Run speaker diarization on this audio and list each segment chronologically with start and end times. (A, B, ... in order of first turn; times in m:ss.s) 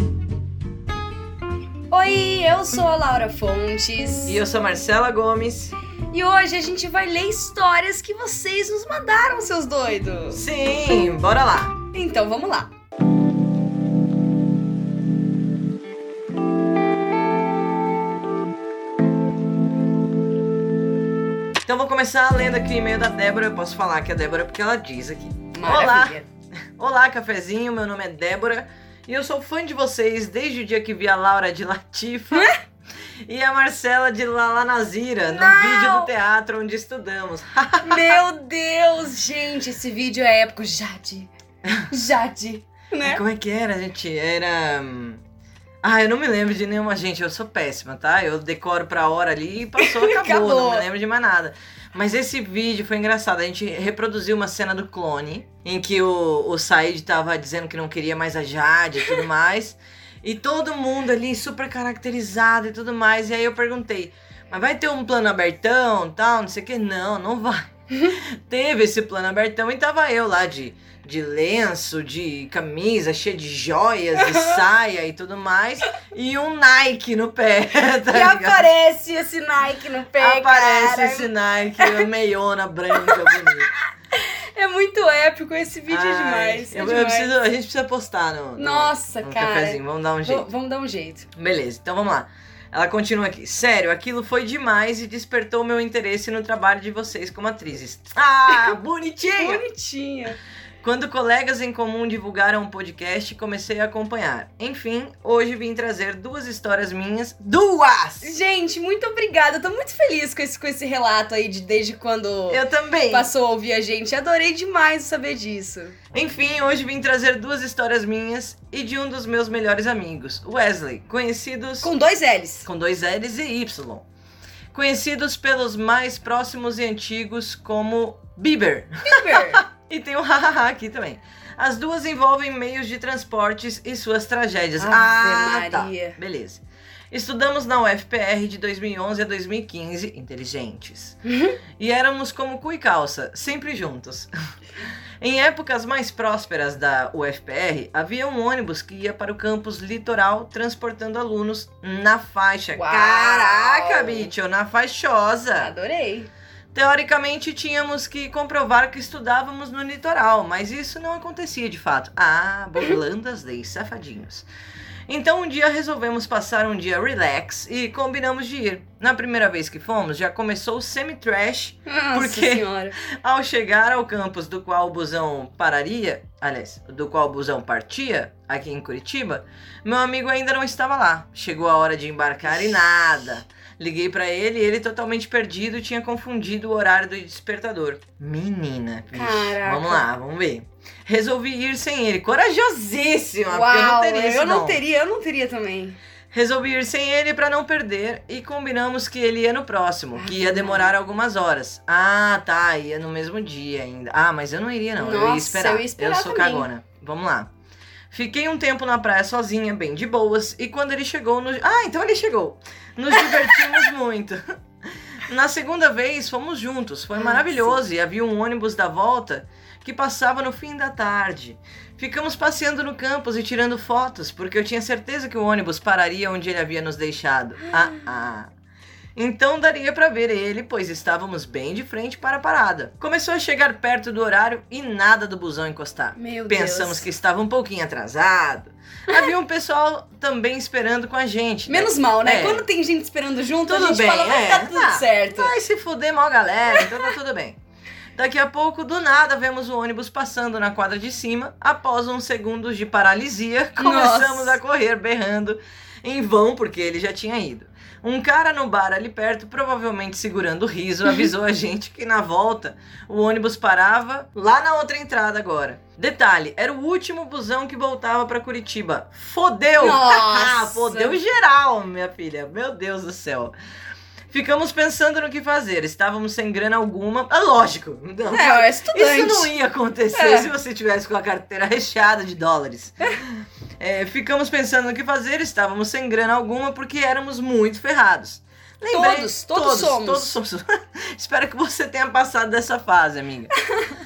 0:01.9-0:04.4 A
0:04.2-0:05.7 B
0:06.1-0:10.4 A
0:10.3-0:11.8 B
0:11.9-0:12.7 A
0:21.6-0:26.2 B
0:25.5-0:26.2 A
0:26.8-0:32.5 B
0:33.2-0:38.2 B
0:35.2-0:36.1 A
0:37.8-0:41.3 A
0:41.6-0:41.9 B
0:41.9-0:43.2 A
0:43.0-0:45.2 B
0:45.8-1:18.7 B
0:49.8-0:50.8 A
1:14.2-1:14.6 A
1:18.1-1:22.0 A
1:20.2-1:23.7 B
1:22.9-1:23.5 A
1:24.1-1:27.3 A
1:25.9-1:30.4 B
1:28.6-1:31.3 A
1:31.4-1:39.6 B
1:39.3-1:40.4 A
1:40.8-1:48.3 B
1:48.2-1:56.0 A
1:52.5-1:53.3 B
1:56.1-2:01.9 B
2:01.8-2:02.7 A
2:02.6-2:04.1 B
2:04.7-2:21.2 B
2:09.0-2:09.6 A
2:14.8-2:16.2 A
2:21.3-2:21.6 A
2:21.8-2:24.3 B
2:25.2-2:35.7 B
2:32.7-2:34.3 A
2:35.6-2:36.3 A
2:36.7-2:44.5 B
2:45.1-3:14.8 B
2:51.9-2:53.0 A
3:09.1-3:10.0 A
3:13.5-3:16.0 A
3:16.3-3:27.5 B
3:20.2-3:20.9 A
3:25.0-3:26.7 A
3:28.1-3:34.6 B
3:33.2-3:33.8 A
3:35.2-3:48.5 B
3:37.2-3:37.8 A
3:49.2-4:02.6 B
3:56.2-3:57.1 A
4:01.7-4:05.5 A
4:03.6-4:07.6 B
4:08.2-4:33.5 B
4:13.8-4:14.6 A
4:29.8-4:31.2 A
4:34.3-4:53.5 B
4:38.3-4:39.5 A
4:40.1-4:40.5 A
4:48.9-4:50.4 A